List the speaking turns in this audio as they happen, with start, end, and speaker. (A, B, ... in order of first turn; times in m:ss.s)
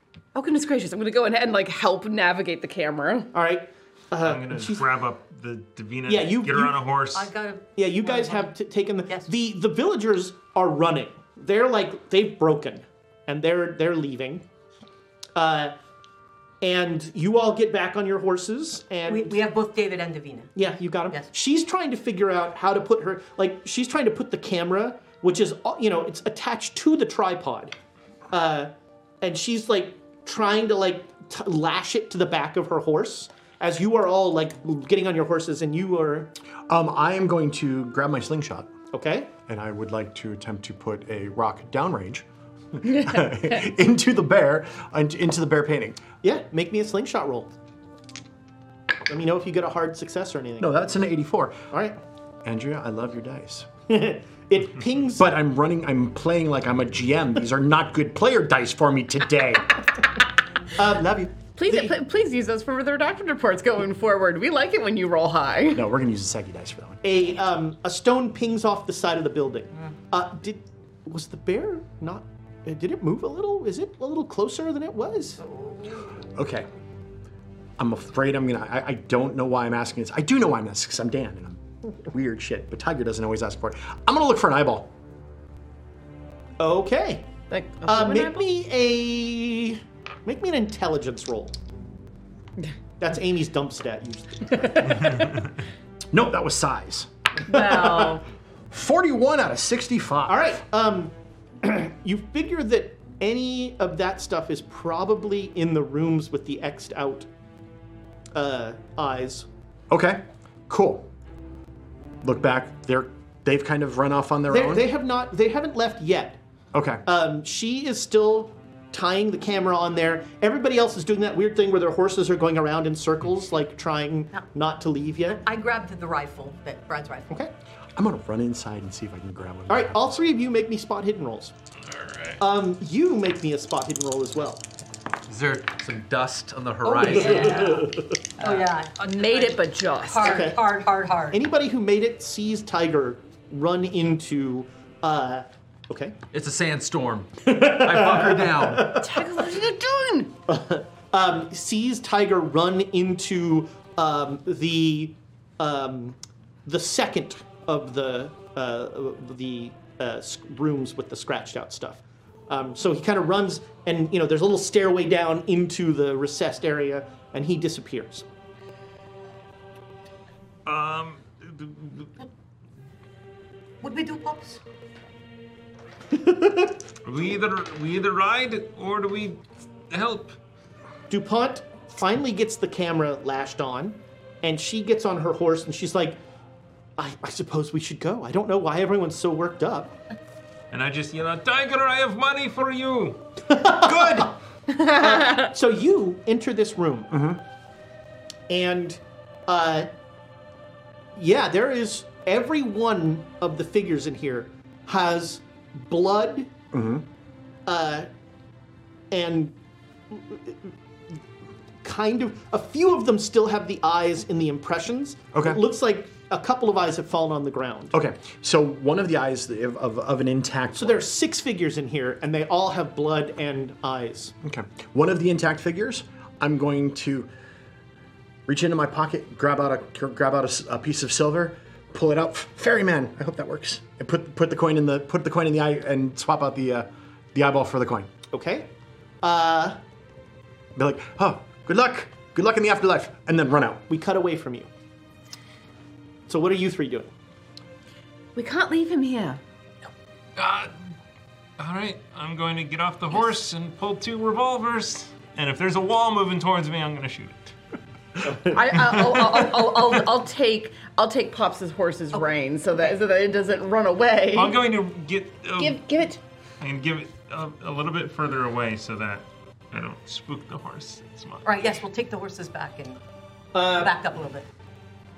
0:00.3-0:03.3 A
0:03.3-0:04.8 B
0:04.2-0:07.3 C
0:06.1-0:06.8 B
0:07.1-0:08.5 D
0:07.8-0:14.4 B
0:15.3-0:15.7 B
0:16.6-0:19.5 B
0:19.0-0:20.5 D
0:20.5-0:27.7 B
0:28.3-0:36.3 B
0:36.7-0:38.7 E
0:38.9-0:39.3 B
0:39.5-0:42.2 E
0:42.8-0:46.0 E
0:42.8-0:43.6 A
0:46.2-0:47.5 B
0:49.1-0:50.7 B
0:50.6-0:51.7 E
0:51.7-0:52.0 B
0:52.4-0:53.7 E
0:53.9-0:55.3 B
0:55.2-0:59.8 E
1:00.8-1:02.0 B
1:01.6-1:05.8 A
1:05.7-1:07.2 E
1:07.0-1:15.4 B
1:15.5-1:15.9 D
1:16.4-1:16.6 E
1:17.8-1:24.9 E
1:26.6-1:27.3 B
1:27.5-1:28.5 A
1:27.8-1:31.5 B
1:33.0-1:35.3 B
1:36.1-1:37.1 E
1:37.5-1:38.2 A
1:37.5-1:38.2 B
1:38.7-1:40.6 E
1:40.2-1:47.3 B
1:48.3-1:49.5 B
1:49.9-1:51.1 E
1:52.2-1:54.8 E
1:54.5-1:56.4 B
1:56.7-1:57.0 E
1:57.0-2:05.4 B
2:05.3-2:07.3 D
2:08.0-2:10.2 E
2:09.7-2:11.5 B
2:11.9-2:12.4 C
2:12.4-2:14.6 B
2:15.3-2:17.8 F
2:16.8-2:17.9 B
2:17.0-2:17.9 D
2:18.4-2:21.4 D
2:19.0-2:20.4 A
2:20.2-2:20.7 B
2:21.3-2:26.2 B
2:26.3-2:29.0 F
2:27.4-2:29.3 B
2:29.0-2:30.3 A
2:30.5-2:48.2 B
2:50.6-2:52.1 C
2:53.8-2:54.6 D
2:56.1-2:56.7 B
2:57.0-3:00.3 C
3:01.1-3:06.2 B
3:07.0-3:09.9 B
3:10.7-3:13.2 C
3:13.4-3:14.3 B
3:13.8-3:14.3 E
3:14.7-3:15.5 A
3:14.9-3:17.1 B
3:17.1-3:17.4 E
3:18.5-3:19.9 B
3:21.2-3:26.5 B
3:26.7-3:27.0 E
3:27.6-3:28.1 B
3:29.1-3:29.5 B
3:30.1-3:30.7 B
3:31.8-3:37.9 B
3:35.3-3:35.6 E
3:37.9-3:41.1 E
3:40.8-3:44.3 B
3:44.4-3:47.3 E
3:48.5-3:58.1 E
3:58.3-3:58.7 B
3:59.2-3:59.8 B
4:00.8-4:03.8 E
4:03.9-4:04.7 B
4:06.3-4:07.1 B
4:08.4-4:09.4 A
4:10.4-4:10.7 C
4:11.6-4:17.5 C
4:18.2-4:18.6 B
4:18.4-4:24.6 A
4:18.9-4:19.5 C
4:24.3-4:25.8 C
4:25.6-4:26.2 A
4:26.6-4:31.6 C
4:31.4-4:33.0 D
4:33.5-4:34.0 B
4:33.6-4:34.5 D